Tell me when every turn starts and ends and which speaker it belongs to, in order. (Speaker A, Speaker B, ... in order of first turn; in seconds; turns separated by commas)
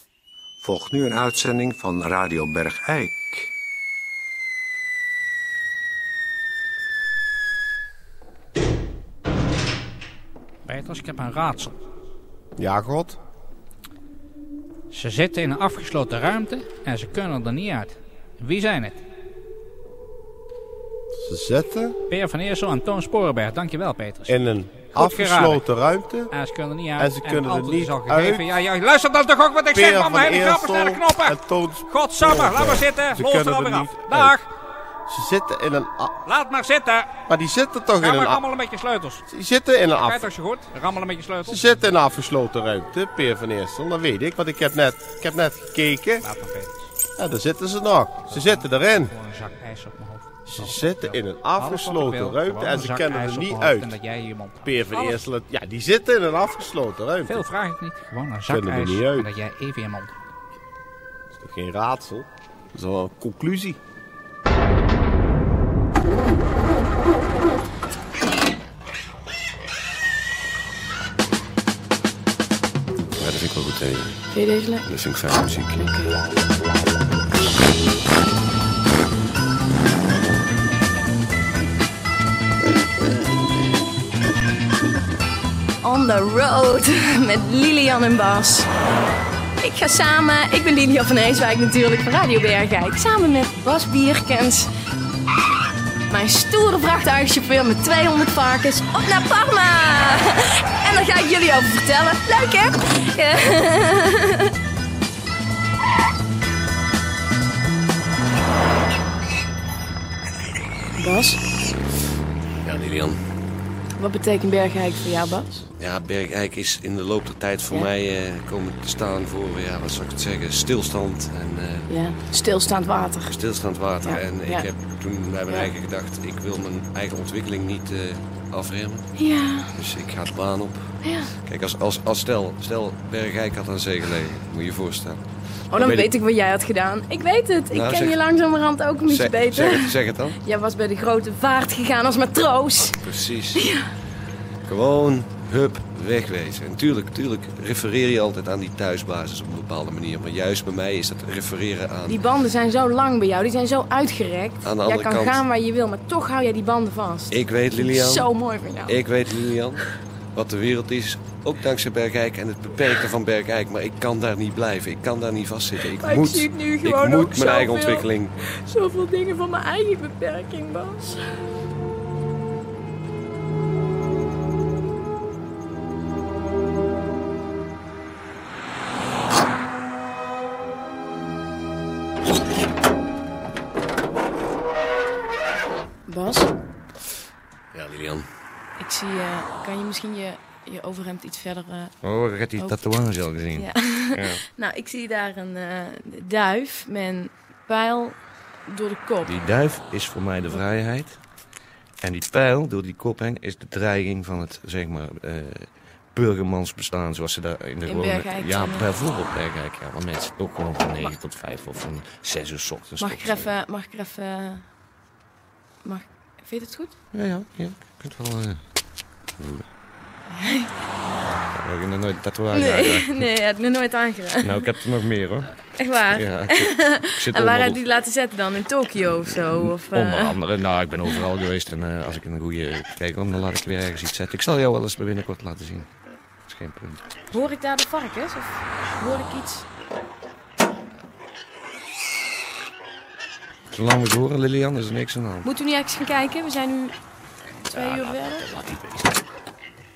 Speaker A: 0.6-3.5, Speaker B: 10.7-11.7, Speaker C: 12.6-13.2, Speaker B: 14.9-19.0, Speaker C: 21.2-21.9, Speaker B: 22.1-25.6, Speaker C: 24.3-26.3, Speaker B: 26.3-34.5, Speaker C: 27.0-28.5, Speaker C: 29.9-31.8, Speaker C: 32.4-34.2, Speaker C: 35.1-36.1, Speaker B: 36.3-37.1, Speaker C: 37.3-38.3, Speaker B: 38.0-39.2, Speaker C: 39.3-40.1, Speaker B: 39.9-41.9, Speaker C: 41.7-46.2, Speaker B: 46.2-46.9, Speaker C: 47.2-49.1, Speaker B: 48.3-55.2, Speaker C: 50.6-53.7, Speaker C: 54.8-57.3, Speaker B: 57.2-60.1, Speaker C: 58.6-59.2, Speaker C: 61.4-63.8, Speaker D: 73.2-74.2, Speaker E: 74.3-74.9, Speaker D: 74.8-75.9, Speaker E: 75.8-76.2, Speaker E: 85.8-88.7, Speaker E: 89.6-94.7, Speaker E: 96.1-104.5, Speaker E: 111.0-111.4, Speaker D: 112.6-113.2, Speaker E: 114.0-115.7, Speaker D: 115.8-121.9, Speaker E: 121.9-123.3, Speaker D: 123.3-129.1, Speaker E: 124.0-124.7, Speaker E: 125.5-125.7, Speaker E: 129.2-129.7, Speaker D: 129.7-136.1, Speaker E: 131.0-131.3, Speaker E: 135.7-143.0, Speaker D: 137.7-138.2, Speaker D: 139.0-140.4, Speaker D: 142.8-143.6, Speaker E: 143.6-143.9, Speaker D: 144.7-152.2, Speaker E: 152.1-159.1, Speaker D: 154.6-155.4, Speaker D: 157.3-158.3, Speaker D: 158.9-159.8, Speaker D: 160.3-168.3, Speaker E: 165.9-171.3, Speaker E: 186.1-186.5, Speaker D: 187.7-188.3, Speaker E: 188.8-191.9, Speaker D: 192.0-194.4, Speaker E: 193.5-199.4, Speaker D: 199.2-201.2, Speaker D: 202.0-213.5, Speaker E: 207.9-208.9, Speaker E: 213.0-214.7, Speaker E: 215.8-216.9, Speaker D: 217.1-218.6, Speaker D: 219.4-219.7, Speaker E: 220.3-220.7, Speaker D: 221.6-223.3, Speaker E: 222.5-224.7, Speaker D: 224.4-227.8, Speaker E: 225.8-230.4, Speaker D: 229.4-235.9, Speaker D: 236.5-237.0, Speaker E: 237.3-239.7, Speaker D: 243.7-245.5, Speaker E: 245.4-247.0, Speaker E: 247.7-248.5, Speaker D: 247.7-249.1